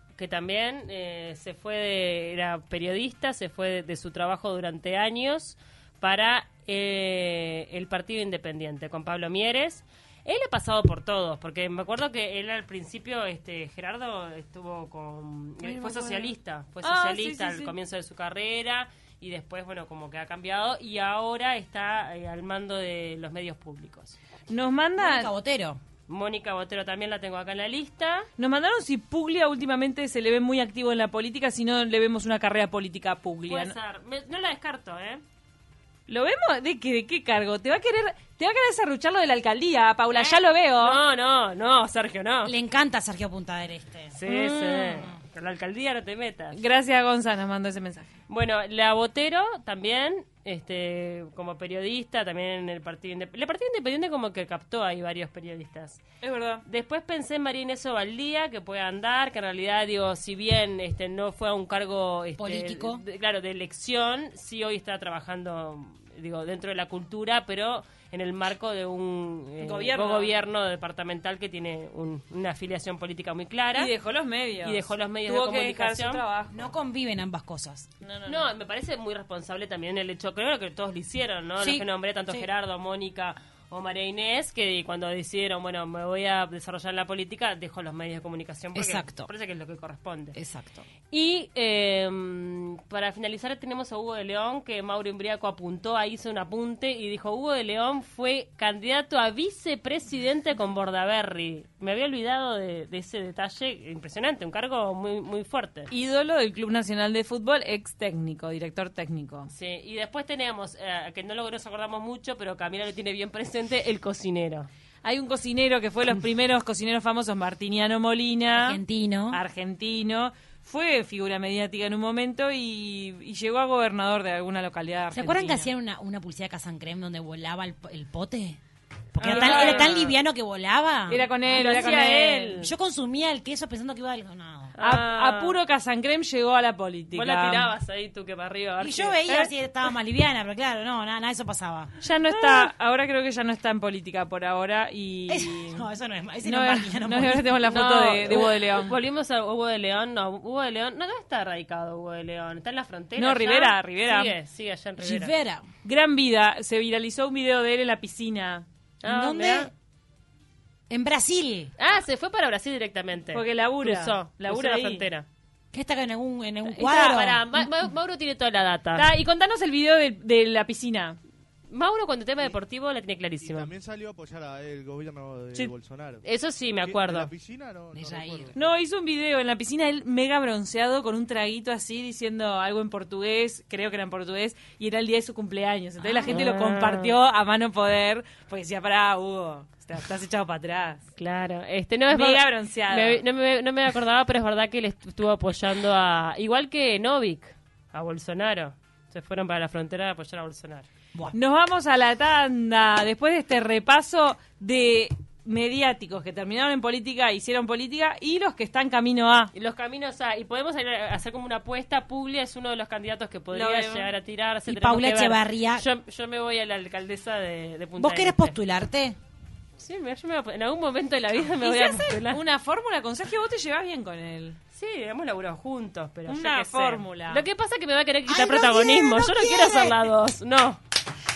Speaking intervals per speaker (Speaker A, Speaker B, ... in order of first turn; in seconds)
Speaker A: 0.2-24.2, 26.1-28.3, 33.5-35.2, 40.1-42.5, 44.1-46.6, 48.3-56.0, 56.6-73.9, 74.6-76.2, 78.2-90.4, 91.1-105.9, 109.5-114.7, 129.2-130.1, 131.4-132.7, 134.7-135.6, 137.1-139.2, 142.3-142.7, 147.7-155.3, 159.0-159.7, 161.8-165.3, 167.1-169.1, 171.7-173.7, 176.2-177.3, 186.2-187.2, 191.2-200.9, 209.5-218.5, 219.8-222.4, 224.7-230.8
Speaker B: 15.6-17.7, 24.5-25.3, 28.4-33.7, 36.1-41.0, 44.2-45.1, 46.5-48.1, 56.2-56.6, 69.6-70.3, 73.7-76.6, 78.0-78.5, 105.9-109.5, 115.0-118.8, 119.3-125.7, 129.2-130.1, 131.1-132.6, 134.8-137.7, 142.0-145.8, 146.4-149.0, 153.2-154.3, 155.8-158.6, 163.3-165.1, 166.6-167.7, 168.9-171.2, 178.5-191.0, 192.1-193.2, 201.3-209.5, 213.5-214.1, 221.5-224.6, 226.3-227.4
Speaker C: 25.0-25.8, 42.4-44.1, 62.4-63.0, 76.5-77.9, 81.6-82.5, 88.8-89.3, 90.3-90.8, 118.5-119.4, 125.1-128.6, 129.1-131.2, 132.6-134.7, 138.8-141.9, 145.3-147.6, 155.0-155.7, 159.0-159.7, 160.9-161.7, 165.7-167.4, 177.9-178.6, 186.0-186.4, 214.7-215.8, 218.0-219.2, 228.2-230.1
Speaker D: 173.4-176.2, 176.8-178.6